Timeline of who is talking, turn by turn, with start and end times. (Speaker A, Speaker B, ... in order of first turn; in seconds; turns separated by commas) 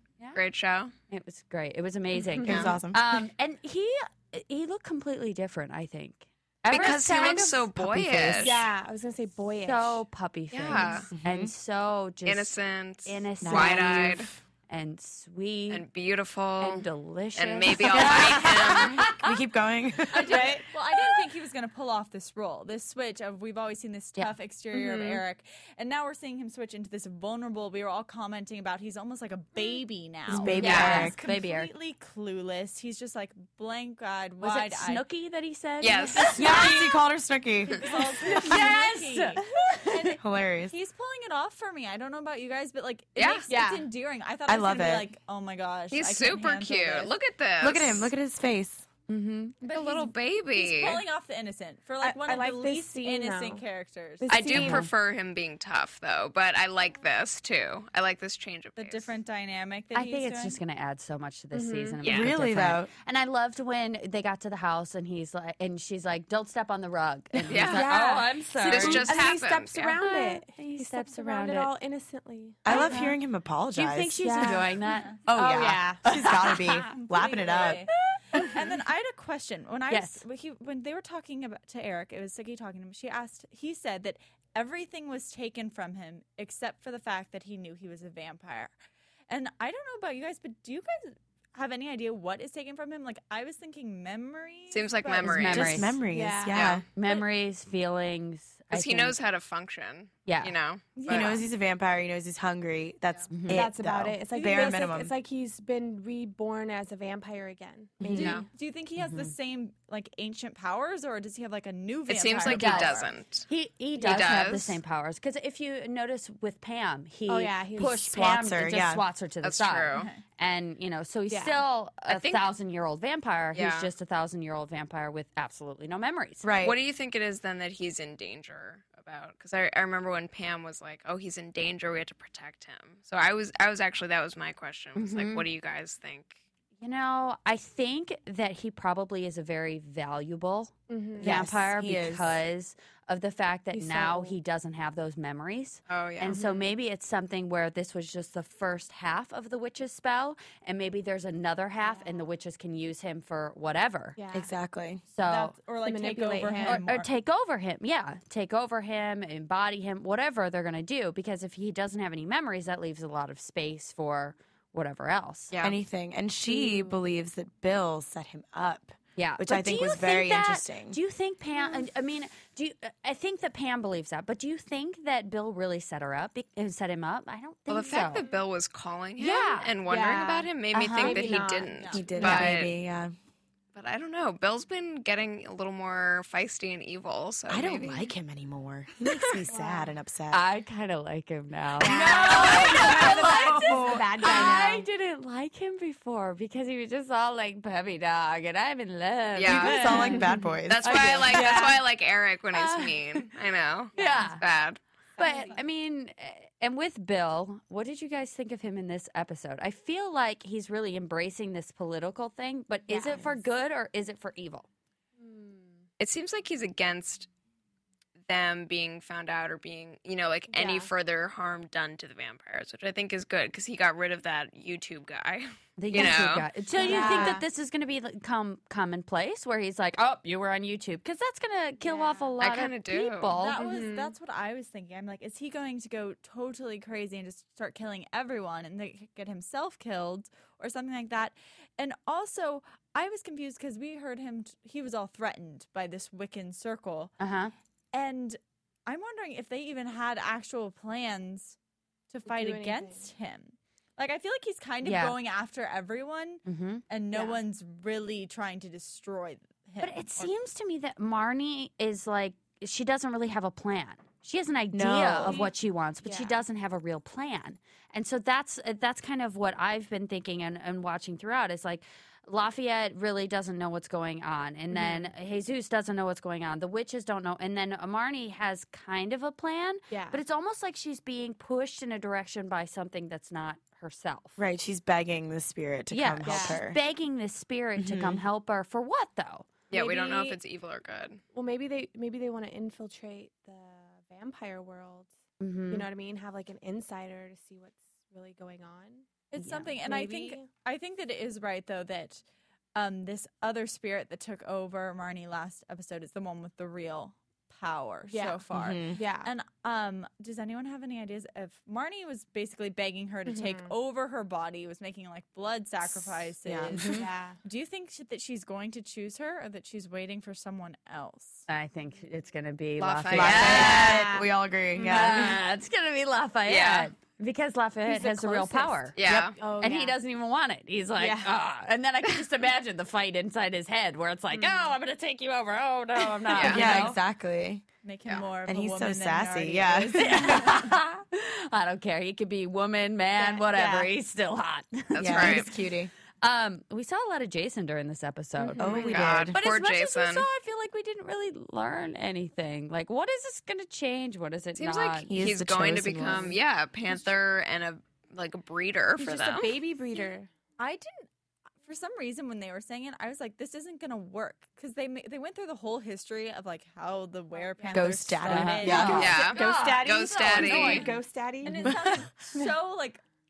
Speaker A: 0.3-0.9, Speaker B: 1.1-8.4, Speaker C: 2.3-2.8, Speaker D: 2.4-3.0, Speaker A: 6.7-8.7, Speaker C: 6.7-7.6, Speaker C: 8.3-10.0, Speaker B: 9.6-15.8, Speaker A: 10.5-11.1, Speaker D: 11.1-11.5, Speaker A: 12.2-14.3, Speaker D: 13.4-14.4, Speaker A: 15.7-19.1, Speaker B: 16.6-19.1, Speaker D: 17.9-20.6, Speaker E: 20.1-35.0, Speaker C: 20.2-20.6, Speaker C: 24.7-25.2, Speaker D: 30.3-31.2, Speaker B: 30.3-31.7, Speaker C: 30.3-31.1, Speaker A: 30.6-31.1, Speaker B: 34.4-37.0, Speaker A: 35.8-36.7, Speaker D: 36.3-37.8, Speaker E: 37.8-47.1, Speaker B: 38.2-40.2, Speaker D: 40.2-40.7, Speaker A: 43.2-43.5, Speaker C: 43.5-43.9, Speaker D: 44.5-45.1, Speaker A: 45.9-48.1, Speaker D: 47.6-48.9, Speaker B: 49.1-49.6, Speaker E: 49.6-54.5, Speaker A: 49.7-51.0, Speaker C: 52.0-53.6, Speaker C: 54.2-54.9, Speaker A: 54.3-59.2, Speaker B: 54.6-54.9, Speaker E: 58.8-60.6, Speaker B: 59.9-69.2, Speaker C: 61.5-62.0, Speaker A: 62.0-62.3, Speaker D: 62.0-62.9, Speaker A: 67.5-67.9, Speaker C: 67.6-73.1, Speaker A: 68.6-70.0, Speaker B: 70.0-71.7, Speaker D: 72.7-74.7, Speaker B: 72.7-73.2, Speaker B: 73.7-75.1, Speaker C: 74.2-74.8, Speaker E: 74.8-75.2, Speaker D: 75.3-77.8, Speaker C: 75.3-76.4, Speaker E: 76.9-88.8, Speaker B: 79.9-80.2, Speaker E: 89.3-95.6, Speaker A: 94.7-95.9, Speaker B: 95.2-96.0, Speaker D: 95.5-96.9, Speaker C: 96.0-97.2, Speaker A: 96.5-96.8, Speaker B: 97.0-99.2, Speaker A: 98.7-101.4, Speaker B: 100.3-100.5, Speaker E: 101.0-101.4, Speaker D: 101.1-105.1, Speaker B: 103.3-103.7, Speaker C: 103.5-108.5, Speaker D: 108.0-108.4, Speaker A: 108.2-108.5, Speaker E: 108.4-113.2, Speaker B: 109.0-109.3, Speaker A: 112.1-113.5, Speaker B: 112.5-113.0, Speaker B: 113.5-126.5, Speaker A: 114.0-114.8, Speaker C: 117.3-118.1, Speaker D: 118.0-119.0, Speaker A: 119.4-120.1, Speaker E: 119.9-120.2, Speaker C: 121.3-121.6, Speaker A: 122.1-122.5, Speaker A: 123.5-123.9, Speaker D: 126.4-126.8, Speaker A: 126.6-136.4, Speaker B: 135.0-135.5, Speaker B: 136.8-154.2, Speaker C: 140.9-141.6, Speaker D: 141.2-142.4, Speaker C: 143.7-144.4, Speaker A: 145.9-146.4, Speaker C: 146.3-146.8, Speaker C: 151.8-152.3, Speaker C: 154.2-154.5, Speaker D: 154.3-155.0, Speaker B: 155.1-155.6, Speaker E: 155.2-157.1, Speaker C: 155.8-156.8, Speaker B: 156.6-165.6, Speaker A: 165.5-165.8, Speaker D: 165.6-171.0, Speaker C: 166.5-167.0, Speaker B: 169.2-178.3, Speaker C: 171.6-171.8, Speaker A: 177.7-182.8, Speaker B: 179.2-179.7, Speaker C: 179.9-182.4, Speaker B: 180.7-181.4, Speaker E: 181.8-182.2, Speaker D: 181.9-183.2, Speaker B: 182.2-182.5, Speaker A: 183.8-188.1, Speaker D: 187.5-190.4, Speaker C: 189.5-189.9, Speaker B: 190.3-200.3, Speaker D: 191.8-194.6, Speaker C: 191.8-194.9, Speaker A: 192.3-193.1, Speaker A: 199.3-200.0, Speaker D: 199.5-201.1, Speaker C: 199.9-200.5, Speaker A: 200.7-204.8, Speaker B: 200.8-201.8, Speaker C: 201.3-201.8, Speaker B: 202.5-203.1, Speaker B: 203.9-204.4, Speaker C: 204.0-204.4, Speaker C: 205.2-205.6, Speaker B: 205.2-214.7, Speaker C: 212.9-213.4, Speaker C: 215.2-215.8, Speaker A: 216.0-217.3, Speaker A: 218.3-226.5, Speaker C: 220.5-220.9, Speaker B: 225.8-233.6, Speaker C: 226.7-227.4, Speaker C: 231.8-232.3, Speaker A: 232.4-233.4, Speaker E: 233.4-247.1, Speaker C: 233.6-234.2, Speaker B: 247.2-247.5, Speaker E: 247.9-251.6, Speaker E: 252.1-260.3, Speaker C: 252.3-253.1, Speaker B: 254.8-255.2, Speaker B: 256.5-256.8, Speaker C: 257.1-257.4, Speaker B: 259.8-284.4, Speaker D: 264.7-265.5, Speaker C: 265.2-265.5, Speaker C: 266.0-266.4, Speaker C: 274.7-275.1, Speaker C: 279.9-280.2, Speaker D: 284.4-286.8, Speaker B: 285.9-289.5, Speaker C: 286.2-286.6, Speaker D: 287.8-288.2, Speaker A: 289.7-291.2, Speaker C: 289.7-290.4, Speaker C: 291.3-295.1, Speaker B: 295.4-295.9, Speaker C: 295.7-299.2, Speaker E: 299.3-302.2, Speaker B: 299.4-299.8, Speaker C: 299.8-300.5, Speaker E: 302.8-321.5, Speaker C: 308.1-309.3, Speaker D: 308.5-309.1, Speaker C: 313.3-313.7, Speaker D: 316.4-317.0, Speaker C: 316.8-317.4, Speaker B: 321.5-324.1, Speaker A: 322.8-324.1, Speaker D: 323.1-325.4, Speaker C: 323.5-325.3, Speaker B: 324.8-329.0, Speaker A: 326.5-326.9, Speaker C: 327.9-330.0, Speaker A: 329.0-329.4, Speaker D: 329.0-329.4, Speaker B: 329.6-337.0, Speaker C: 331.0-331.3, Speaker C: 334.3-334.7, Speaker A: 336.3-336.9, Speaker D: 336.4-337.6, Speaker E: 337.8-340.7, Speaker D: 338.4-340.5, Speaker B: 340.0-345.6, Speaker C: 343.2-343.4, Speaker D: 343.5-343.9, Speaker A: 344.9-345.5, Speaker D: 345.0-345.9, Speaker B: 346.2-355.1, Speaker C: 348.4-349.1, Speaker D: 348.6-349.4, Speaker A: 348.8-350.3, Speaker A: 354.6-359.6, Speaker D: 355.1-356.4, Speaker C: 359.0-360.3, Speaker E: 359.9-361.1, Speaker E: 361.6-369.6, Speaker C: 367.4-367.9, Speaker D: 367.7-369.2, Speaker B: 367.8-370.9, Speaker C: 368.6-371.8, Speaker A: 368.8-370.9, Speaker E: 370.3-370.9, Speaker E: 371.4-373.0, Speaker D: 371.6-372.0